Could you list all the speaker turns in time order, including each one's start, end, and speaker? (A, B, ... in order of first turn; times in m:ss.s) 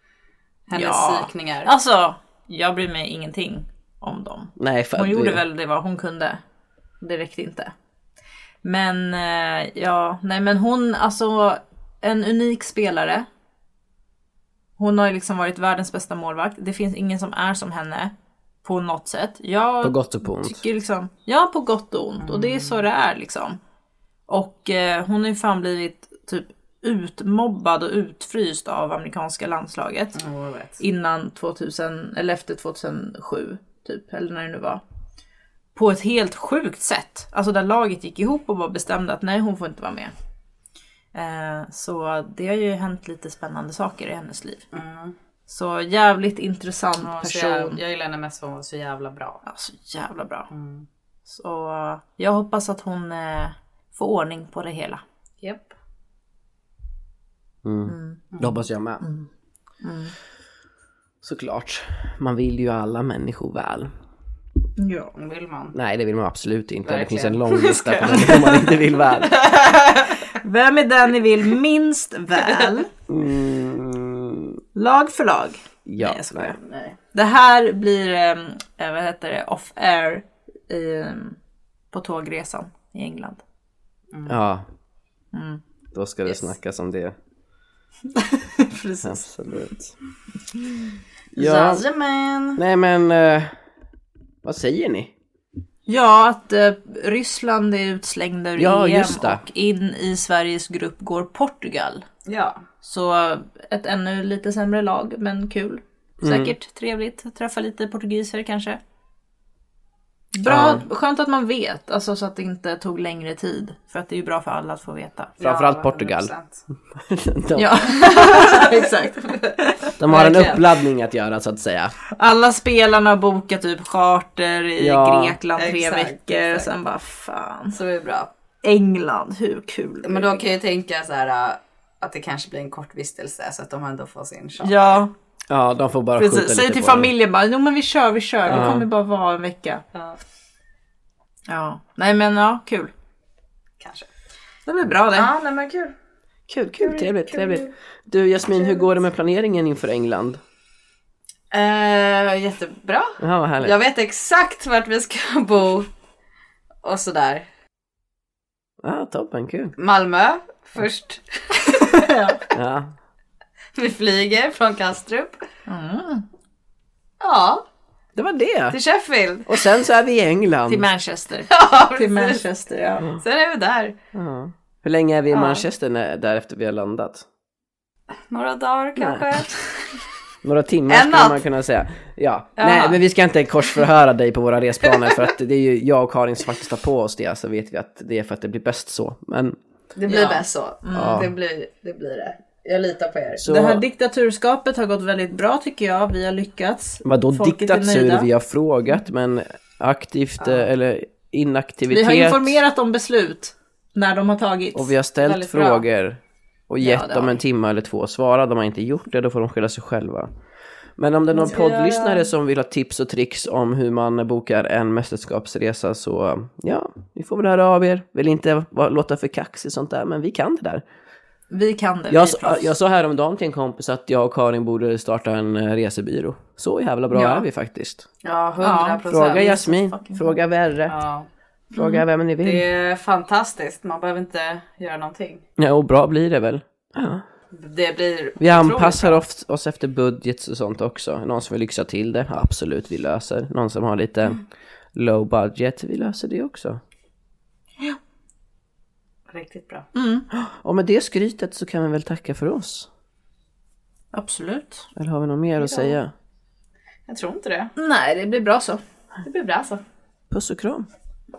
0:00.7-0:01.7 A
0:00.7-0:06.4 B
0:04.6-0:05.4 C
0:07.0-0:07.7 B
0:08.6-0:13.3 B
0:14.8-0:23.6 B
0:19.8-0:20.6 C
0:22.2-0:22.8 A
0:24.3-0:30.2 B
0:30.2-0:30.8 A
0:30.8-0:34.8 B
0:35.7-0:40.1 B
0:41.1-0:44.6 B
0:44.7-0:45.2 A
0:45.5-0:47.8 B
0:47.0-0:49.4 A
0:49.4-0:50.5 B
0:50.5-0:50.8 A
0:51.2-0:55.0 B
0:55.4-0:55.7 A
0:57.6-0:59.0 C
0:57.8-0:58.3 B
0:59.0-0:59.3 B
0:59.8-1:00.1 B
1:01.2-1:03.9 C
1:04.8-1:05.1 B
1:05.2-1:05.7 A
1:05.7-1:09.4 C
1:06.8-1:08.6 A
1:08.1-1:08.5 B
1:09.1-1:10.3 A
1:10.3-1:12.9 B
1:12.4-1:12.8 A
1:13.1-1:14.6 C
1:14.7-1:16.5 B
1:15.8-1:16.6 C
1:16.3-1:17.0 A
1:17.1-1:21.4 B
1:21.9-1:23.4 B
1:24.1-1:24.4 A
1:24.2-1:24.7 C
1:25.3-1:25.6 B
1:25.9-1:27.1 C
1:28.2-1:29.2 B
1:29.0-1:29.9 C
1:31.3-1:32.6 A
1:31.4-1:31.8 C
1:32.6-1:33.5 C
1:34.4-1:35.1 C
1:35.9-1:42.0 B
1:38.6-1:39.4 C
1:42.2-1:42.6 A
1:42.8-1:48.8 B
1:46.2-1:46.5 C
1:50.3-1:55.3 B
1:50.4-1:50.8 C
1:55.4-1:56.6 A
1:55.4-1:56.3 C
1:57.0-1:57.9 C
1:57.5-1:59.9 B
1:57.9-2:00.7 A
2:00.0-2:02.0 C
2:02.1-2:07.8 B
2:04.8-2:05.4 C
2:05.6-2:06.7 A
2:07.7-2:08.3 A
2:08.6-2:10.4 B
2:10.0-2:14.7 A
2:14.6-2:15.1 B
2:15.5-2:17.1 C
2:16.2-2:19.8 B
2:18.4-2:18.7 A
2:18.5-2:18.9 C
2:21.5-2:22.9 B
2:23.8-2:24.1 A
2:24.6-2:25.3 B
2:25.1-2:25.9 A
2:26.5-2:30.4 C
2:26.8-2:27.7 A
2:31.5-2:35.9 A
2:33.2-2:33.8 C
2:36.8-2:37.5 A
2:38.8-2:39.7 C
2:39.8-2:42.1 A
2:41.7-2:42.4 B
2:42.5-2:42.9 C
2:43.7-2:45.4 A
2:45.6-2:46.2 B
2:47.2-2:47.6 A
2:48.1-2:48.8 C
2:48.7-2:49.7 A
2:49.4-2:50.9 C
2:50.7-2:53.1 B
2:51.5-2:52.4 A
2:53.2-2:54.0 A
2:54.1-2:57.2 C
2:55.3-2:55.6 A
2:58.3-3:00.0 A
2:59.0-2:59.4 C
3:00.4-3:09.6 C
3:00.9-3:01.4 A
3:02.6-3:03.0 A
3:10.0-3:13.4 A
3:10.1-3:11.3 B
3:10.9-3:11.3 C
3:13.4-3:13.8 C
3:13.4-3:18.3 B
3:17.0-3:22.6 C
3:20.4-3:20.6 A
3:21.9-3:24.9 B
3:24.7-3:30.3 C
3:25.2-3:25.8 A
3:26.8-3:27.4 B
3:31.0-3:40.8 C
3:31.4-3:32.3 A
3:41.5-3:42.7 B
3:42.1-3:48.0 C
3:47.1-3:47.4 B
3:48.2-3:49.5 A
3:48.6-3:50.3 B
3:49.0-3:51.0 C
3:50.9-3:51.3 A
3:51.7-3:52.7 C
3:51.7-3:52.0 B
3:52.4-3:55.4 A
3:55.6-3:57.2 C
3:57.5-3:59.2 A
3:58.4-4:04.4 C
4:04.9-4:06.8 C
4:09.3-4:09.9 A
4:09.9-4:10.3 B
4:10.3-4:12.9 C
4:14.1-4:14.9 B
4:15.0-4:16.1 C
4:15.6-4:16.0 A
4:17.1-4:17.7 A
4:17.8-4:18.8 B
4:19.2-4:19.8 A
4:20.3-4:20.9 C